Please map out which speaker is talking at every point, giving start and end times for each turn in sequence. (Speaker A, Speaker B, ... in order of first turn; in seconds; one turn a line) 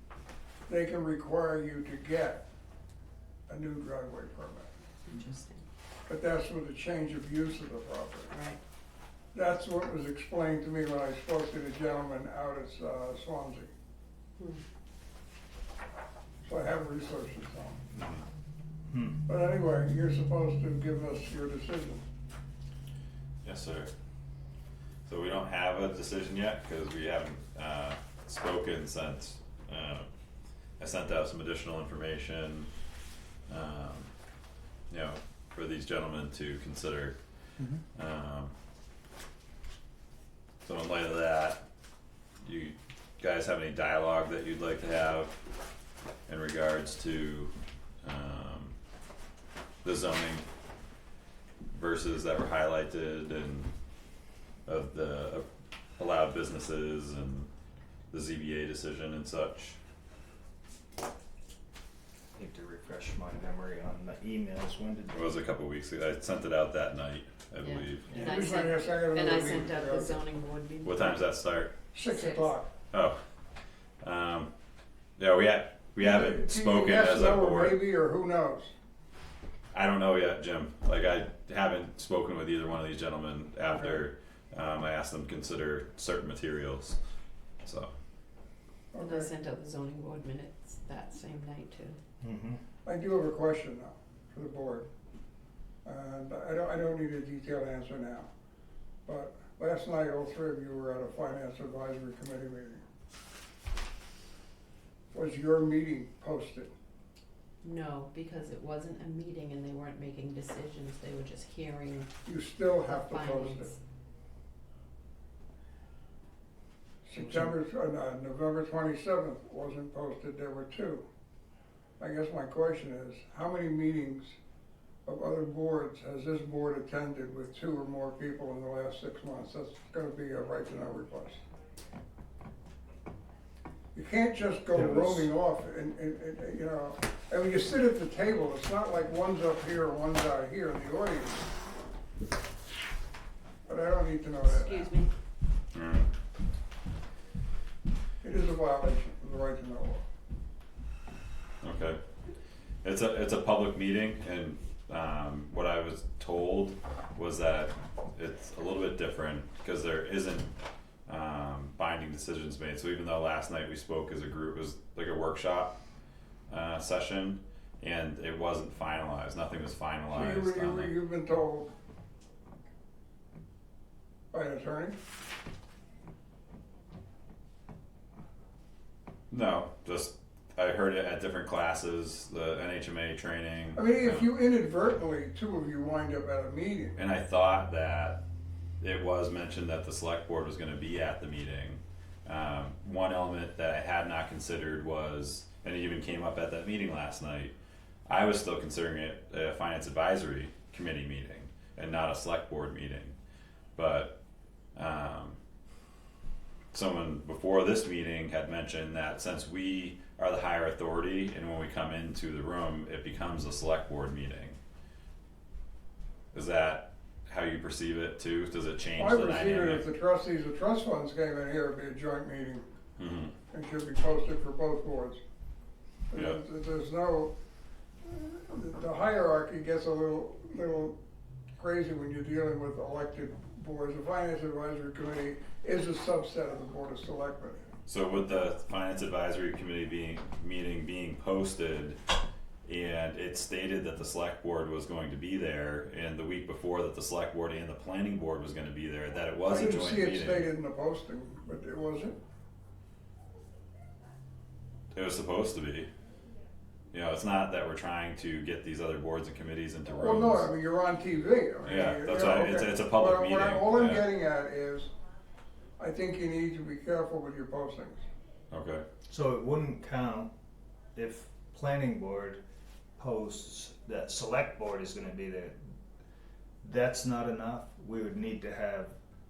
Speaker A: 0.7-2.4
Speaker A: 3.5-4.7
Speaker B: 5.1-5.6
Speaker A: 6.1-8.3
Speaker B: 8.3-8.6
Speaker A: 9.3-13.7
Speaker A: 16.4-17.8
Speaker C: 17.9-18.2
Speaker D: 18.9-19.2
Speaker A: 19.3-22.0
Speaker C: 23.4-23.9
Speaker C: 25.1-30.1
Speaker C: 30.8-32.7
Speaker C: 33.5-34.1
Speaker C: 34.9-37.2
Speaker C: 38.0-38.5
Speaker C: 40.6-41.6
Speaker C: 42.4-45.4
Speaker C: 46.3-47.5
Speaker C: 48.0-48.8
Speaker C: 49.8-50.4
Speaker C: 51.7-53.7
Speaker C: 54.7-55.5
Speaker C: 56.0-57.5
Speaker C: 58.1-59.8
Speaker D: 62.3-65.3
Speaker C: 65.1-68.3
Speaker B: 67.6-71.2
Speaker A: 68.1-70.2
Speaker C: 70.8-71.8
Speaker A: 71.9-72.7
Speaker B: 72.0-72.5
Speaker C: 72.9-73.2
Speaker C: 74.0-74.5
Speaker C: 75.2-77.8
Speaker A: 76.0-78.7
Speaker C: 79.7-87.0
Speaker C: 87.6-87.9
Speaker A: 88.9-89.3
Speaker B: 89.0-92.0
Speaker D: 92.2-92.6
Speaker A: 92.9-94.9
Speaker A: 95.8-98.3
Speaker A: 99.1-102.8
Speaker A: 105.1-106.7
Speaker B: 107.6-112.1
Speaker A: 112.3-113.7
Speaker B: 112.9-113.8
Speaker A: 117.1-121.0
Speaker D: 117.2-117.5
Speaker A: 122.0-124.4
Speaker A: 125.1-131.4
Speaker A: 133.9-141.5
Speaker D: 134.7-135.3
Speaker A: 143.7-144.9
Speaker B: 144.4-145.1
Speaker C: 145.7-146.1
Speaker A: 148.2-150.0
Speaker C: 151.6-152.0
Speaker C: 152.8-160.5
Speaker C: 161.1-165.8
Speaker C: 166.5-170.9
Speaker A: 170.1-171.7
Speaker A: 174.3-175.0
Speaker C: 179.3-184.3
Speaker A: 183.7-187.0
Speaker C: 186.9-188.2
Speaker C: 188.8-197.5
Speaker C: 198.1-203.1
Speaker C: 203.8-204.2
Speaker C: 204.8-205.4
Speaker C: 206.7-214.6
Speaker C: 216.3-219.8
Speaker A: 219.0-222.7
Speaker C: 223.0-223.3
Speaker A: 223.5-225.2
Speaker A: 226.1-227.3
Speaker C: 226.1-226.4
Speaker A: 228.1-231.0
Speaker A: 231.6-237.6
Speaker C: 237.9-242.0
Speaker C: 242.7-250.5
Speaker A: 249.5-252.2
Speaker C: 254.9-255.9
Speaker C: 256.9-260.5
Speaker A: 259.9-264.9
Speaker C: 261.6-264.1
Speaker A: 265.8-268.0
Speaker C: 268.5-268.9
Speaker D: 269.1-270.3
Speaker D: 270.9-272.4
Speaker D: 273.0-275.6
Speaker D: 276.6-278.9